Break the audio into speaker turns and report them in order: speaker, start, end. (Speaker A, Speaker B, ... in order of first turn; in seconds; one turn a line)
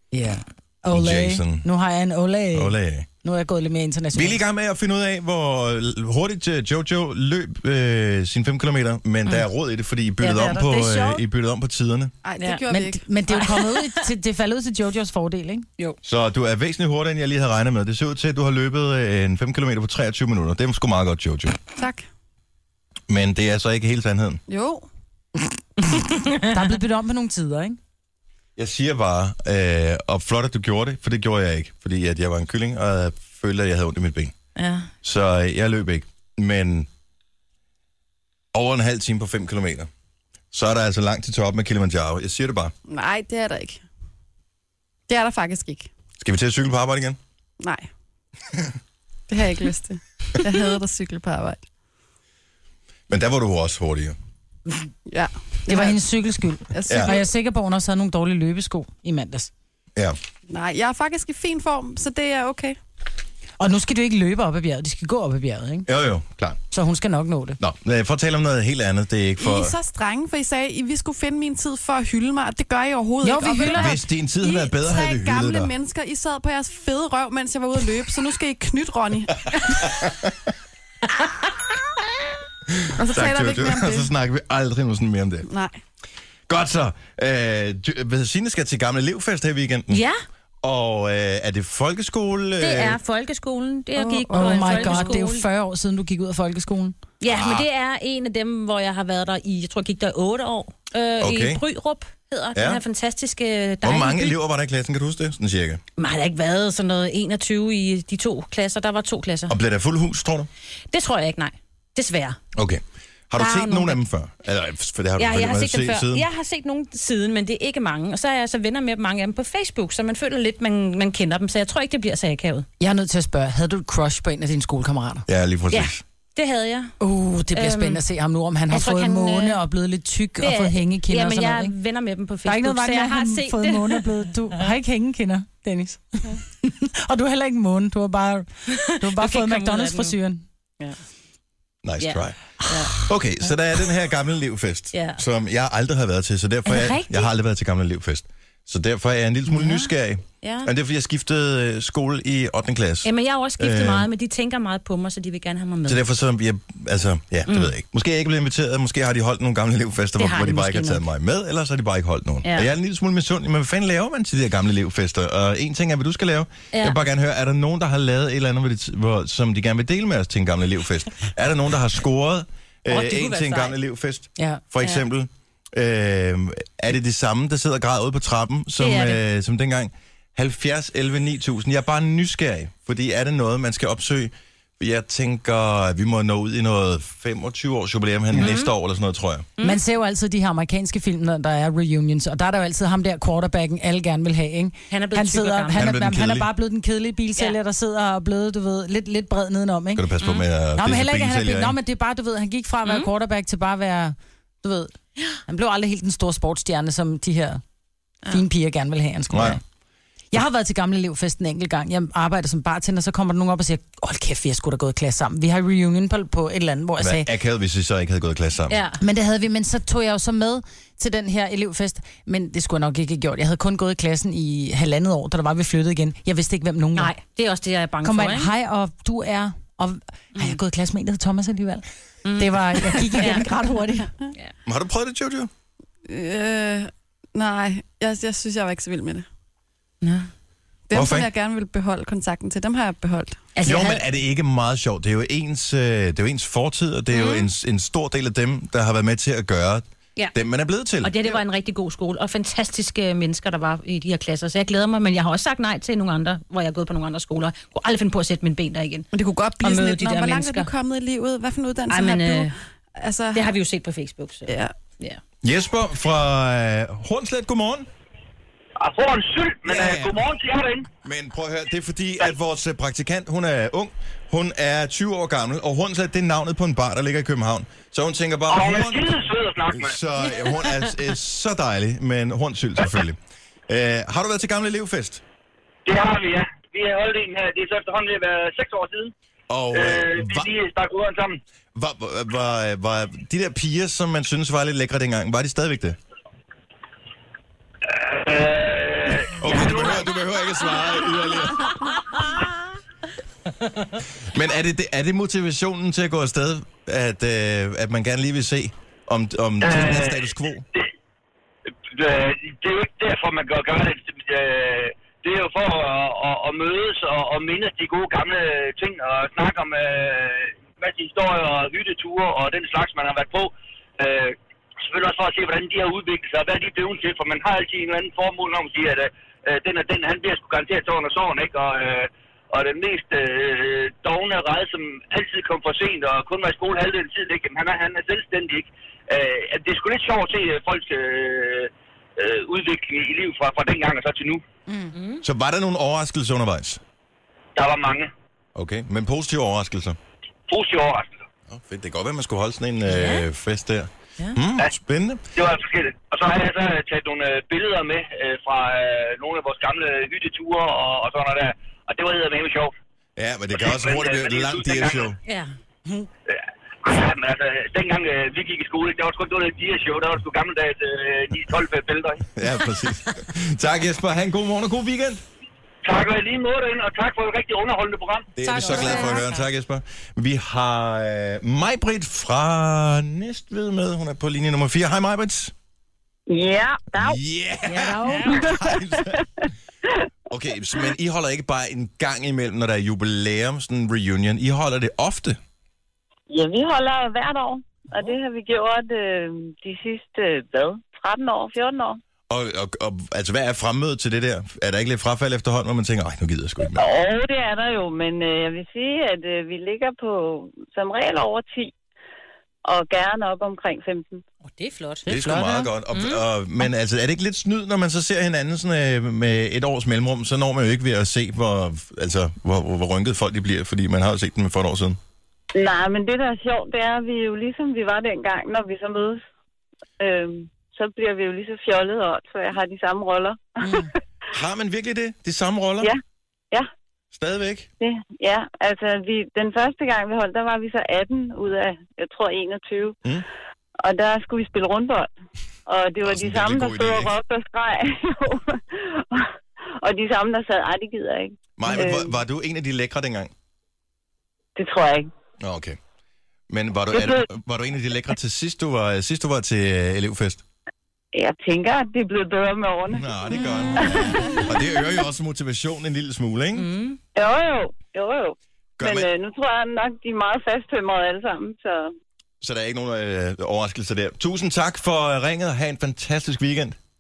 Speaker A: 0.1-4.4
Speaker B: 0.9-1.7
Speaker B: 2.5-3.1
Speaker B: 4.1-12.1
Speaker C: 10.2-10.9
Speaker A: 10.5-11.2
Speaker D: 12.2-13.0
Speaker C: 12.4-12.6
Speaker A: 12.7-15.7
Speaker C: 13.3-13.9
Speaker B: 16.0-21.6
Speaker D: 21.8-22.1
Speaker B: 23.1-24.4
Speaker D: 24.5-24.9
Speaker C: 25.9-26.5
Speaker A: 26.4-27.8
Speaker B: 28.6-34.4
Speaker C: 34.6-34.9
Speaker B: 35.0-36.9
Speaker B: 38.5-39.9
Speaker B: 40.5-42.7
Speaker D: 42.9-43.8
Speaker D: 45.1-45.9
Speaker B: 46.2-47.2
Speaker D: 47.6-47.9
Speaker D: 49.3-51.6
Speaker B: 53.1-54.2
Speaker D: 55.1-56.0
Speaker A: 55.7-59.5
Speaker D: 56.7-57.2
Speaker B: 56.9-57.1
Speaker D: 60.5-62.8
Speaker A: 63.6-65.9
Speaker B: 65.9-66.6
Speaker A: 66.7-67.6
Speaker B: 67.6-69.8
Speaker D: 69.4-80.0
Speaker A: 73.2-74.0
Speaker B: 73.7-75.7
Speaker B: 79.8-80.3
Speaker B: 82.7-85.5
Speaker D: 83.0-84.1
Speaker D: 85.5-85.8
Speaker B: 86.5-90.0
Speaker C: 89.9-90.2
Speaker B: 90.6-93.0
Speaker C: 92.6-95.5
Speaker D: 94.0-95.2
Speaker A: 94.3-97.0
Speaker C: 97.2-104.4
Speaker B: 97.3-97.7
Speaker B: 101.2-101.6
Speaker B: 102.5-102.8
Speaker B: 103.8-105.8
Speaker C: 106.0-109.6
Speaker B: 109.5-110.5
Speaker C: 110.9-112.4
Speaker B: 112.5-116.3
Speaker C: 113.4-114.0
Speaker C: 115.2-122.7
Speaker A: 122.8-125.3
Speaker B: 125.3-126.0
Speaker C: 125.7-126.9
Speaker A: 127.0-131.8
Speaker C: 127.5-128.0
Speaker C: 128.7-129.6
Speaker C: 130.4-134.6
Speaker A: 132.4-140.4
Speaker C: 138.8-140.2
Speaker B: 141.8-142.4
Speaker C: 142.0-143.0
Speaker B: 143.0-154.1
Speaker C: 144.9-145.2
Speaker C: 146.7-147.3
Speaker C: 149.5-149.9
Speaker C: 150.4-150.7
Speaker C: 153.0-156.0
Speaker B: 155.9-189.5
Speaker C: 160.2-161.0
Speaker C: 162.4-162.7
Speaker C: 166.7-167.0
Speaker C: 172.9-173.8
Speaker C: 178.8-179.2
Speaker C: 188.3-188.7
Speaker A: 189.6-200.1
Speaker C: 194.9-195.8
Speaker B: 195.7-196.5
Speaker B: 200.0-201.8
Speaker A: 200.8-204.9
Speaker A: 205.5-207.6
Speaker A: 208.3-209.6
Speaker B: 209.3-209.6
Speaker A: 210.3-217.3
Speaker B: 217.0-218.8
Speaker C: 218.7-219.0
Speaker A: 219.0-227.1
Speaker C: 227.0-228.5
Speaker A: 228.0-231.8
Speaker C: 232.2-233.5
Speaker A: 232.4-234.1
Speaker B: 234.7-235.5
Speaker D: 236.1-239.2
Speaker C: 240.0-240.3
Speaker D: 240.9-243.5
Speaker B: 240.9-241.3
Speaker C: 243.6-244.0
Speaker B: 243.7-251.2
Speaker C: 247.1-247.5
Speaker C: 251.0-259.1
Speaker D: 259.1-263.5
Speaker C: 259.6-260.7
Speaker C: 261.9-262.6
Speaker C: 263.3-265.2
Speaker D: 264.5-264.7
Speaker B: 265.4-267.9
Speaker E: 268.8-270.9
Speaker B: 269.6-270.3
Speaker B: 271.0-279.1
Speaker E: 278.5-279.9
Speaker B: 279.7-285.2
Speaker E: 285.9-289.1
Speaker B: 289.5-290.5
Speaker E: 289.7-291.4
Speaker B: 291.8-296.0
Speaker E: 297.9-300.6
Speaker B: 299.4-301.8
Speaker B: 304.2-310.6
Speaker E: 309.6-310.9
Speaker E: 311.9-344.4
Speaker C: 344.9-345.2
Speaker B: 345.2-346.8
Speaker E: 347.6-348.1
Speaker B: 348.6-350.0
Speaker E: 350.5-351.2
Speaker B: 351.5-355.2
Speaker C: 352.9-353.2
Speaker E: 355.4-362.7
Speaker B: 363.2-365.2
Speaker E: 363.6-365.1
Speaker C: 365.3-366.1
Speaker E: 366.8-372.3
Speaker B: 372.3-375.2
Speaker E: 375.8-378.3
Speaker B: 378.4-385.5
Speaker C: 378.4-379.4
Speaker A: 378.5-379.1
Speaker F: 386.3-387.2
Speaker B: 386.9-389.2
Speaker C: 387.8-388.4
Speaker A: 387.8-388.1
Speaker F: 388.2-389.2
Speaker B: 390.3-395.4
Speaker F: 396.3-402.0
Speaker B: 402.3-406.9
Speaker F: 406.7-411.7
Speaker F: 412.6-414.2
Speaker C: 414.5-416.2
Speaker B: 415.1-425.0
Speaker A: 415.1-415.6
Speaker F: 425.6-429.2
Speaker F: 430.0-433.9
Speaker A: 433.6-433.9
Speaker B: 434.3-435.9
Speaker B: 437.1-437.7
Speaker F: 437.8-442.9
Speaker F: 443.8-445.1
Speaker F: 445.7-449.3
Speaker B: 446.0-447.1
Speaker F: 449.8-452.1
Speaker B: 451.6-453.3
Speaker F: 454.6-455.1
Speaker B: 455.4-455.8
Speaker B: 456.5-460.4
Speaker F: 456.9-457.3
Speaker F: 461.1-463.1
Speaker B: 462.9-466.7
Speaker F: 463.8-464.4
Speaker C: 466.6-467.0
Speaker F: 467.1-471.9
Speaker B: 468.8-469.1
Speaker B: 472.4-476.8